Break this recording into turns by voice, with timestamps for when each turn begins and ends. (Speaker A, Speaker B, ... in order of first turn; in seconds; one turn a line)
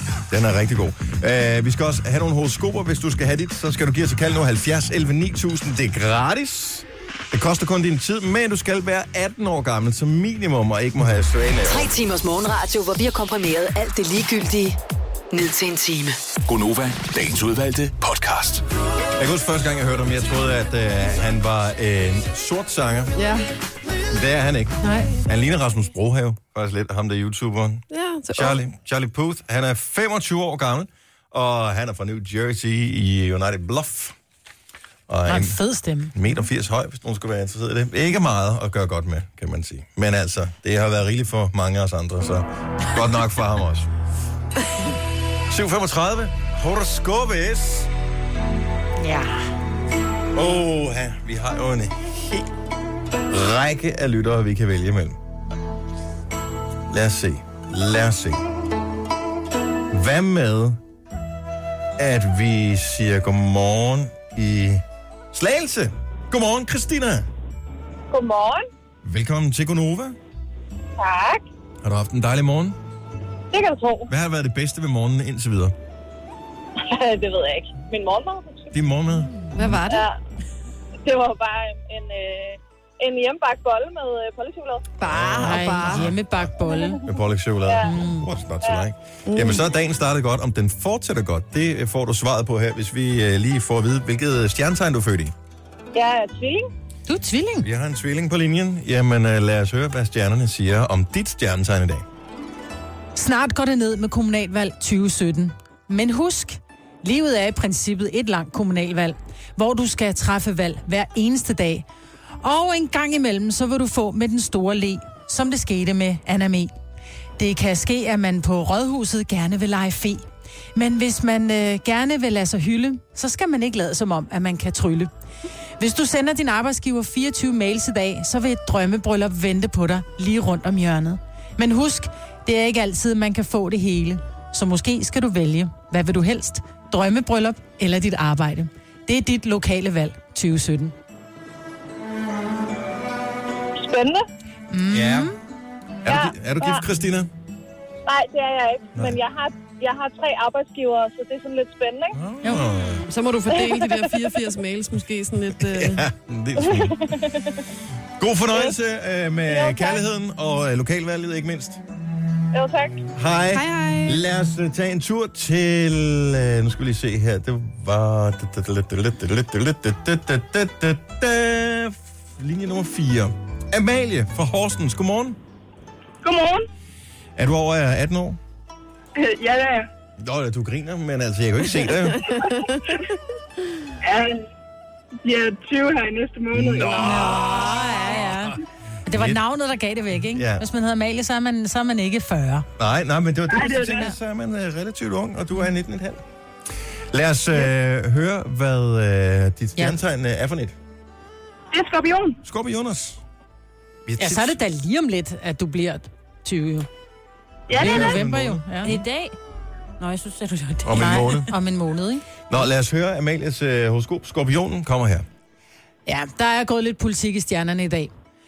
Speaker A: 0.3-11.9
Speaker B: 11.7-14.8
Speaker B: 15.3-16.2
Speaker C: 16.5-18.6
Speaker A: 19.2-23.1
Speaker D: 23.2-23.4
Speaker A: 24.1-34.2
Speaker E: 24.8-25.1
Speaker D: 27.9-28.6
Speaker A: 35.1-35.6
Speaker E: 35.3-36.1
Speaker A: 36.1-43.9
Speaker A: 45.5-47.9
Speaker E: 49.0-49.4
Speaker A: 50.3-52.5
Speaker A: 53.3-55.2
Speaker A: 56.9-58.5
Speaker A: 59.9-60.8
Speaker A: 62.0-67.3
Speaker F: 68.1-68.7
Speaker A: 69.0-70.2
Speaker F: 71.0-71.5
Speaker A: 71.8-72.8
Speaker F: 73.5-74.1
Speaker A: 74.1-75.8
Speaker F: 76.8-78.7
Speaker A: 78.7-79.8
Speaker D: 79.5-80.1
Speaker F: 79.9-80.2
Speaker F: 81.0-84.9
Speaker D: 85.0-86.1
Speaker A: 85.0-86.5
Speaker E: 85.4-87.0
Speaker F: 86.7-86.9
Speaker A: 87.0-95.3
Speaker E: 87.8-88.3
Speaker D: 89.3-89.7
Speaker F: 95.9-96.7
Speaker E: 97.1-97.7
Speaker A: 97.6-102.0
Speaker E: 103.2-111.8
Speaker E: 112.4-116.7
Speaker E: 117.4-120.2
Speaker E: 120.8-125.1
Speaker E: 125.8-140.9
Speaker F: 143.8-144.2
Speaker E: 144.7-145.4
Speaker A: 144.9-145.3
Speaker A: 146.1-147.3
Speaker F: 146.1-146.8
Speaker F: 148.1-152.2
Speaker A: 152.2-153.1
Speaker D: 153.1-156.0
Speaker F: 153.5-154.0
Speaker A: 155.6-157.2
Speaker F: 156.6-157.6
Speaker A: 158.2-161.8
Speaker F: 159.5-160.0
Speaker F: 162.5-163.0
Speaker A: 163.2-175.4
Speaker D: 163.5-164.2
Speaker F: 176.2-176.6
Speaker A: 177.4-178.4
Speaker F: 179.2-179.8
Speaker A: 180.2-182.3
Speaker D: 182.1-182.9
Speaker F: 184.0-184.4
Speaker F: 185.2-187.5
Speaker A: 186.5-188.3
Speaker E: 187.0-188.5
Speaker G: 187.4-188.5
Speaker E: 189.1-192.7
Speaker A: 189.1-189.4
Speaker A: 190.3-190.7
Speaker A: 192.8-196.2
Speaker F: 193.5-194.1
Speaker A: 197.1-200.8
Speaker F: 201.7-202.4
Speaker A: 202.4-203.2
Speaker A: 204.1-204.6
Speaker E: 204.2-206.9
Speaker F: 207.7-208.2
Speaker A: 207.7-208.7
Speaker E: 207.8-209.0
Speaker G: 208.8-209.4
Speaker G: 210.0-211.4
Speaker A: 210.8-211.5
Speaker E: 211.0-212.2
Speaker A: 212.5-215.3
Speaker E: 216.1-218.1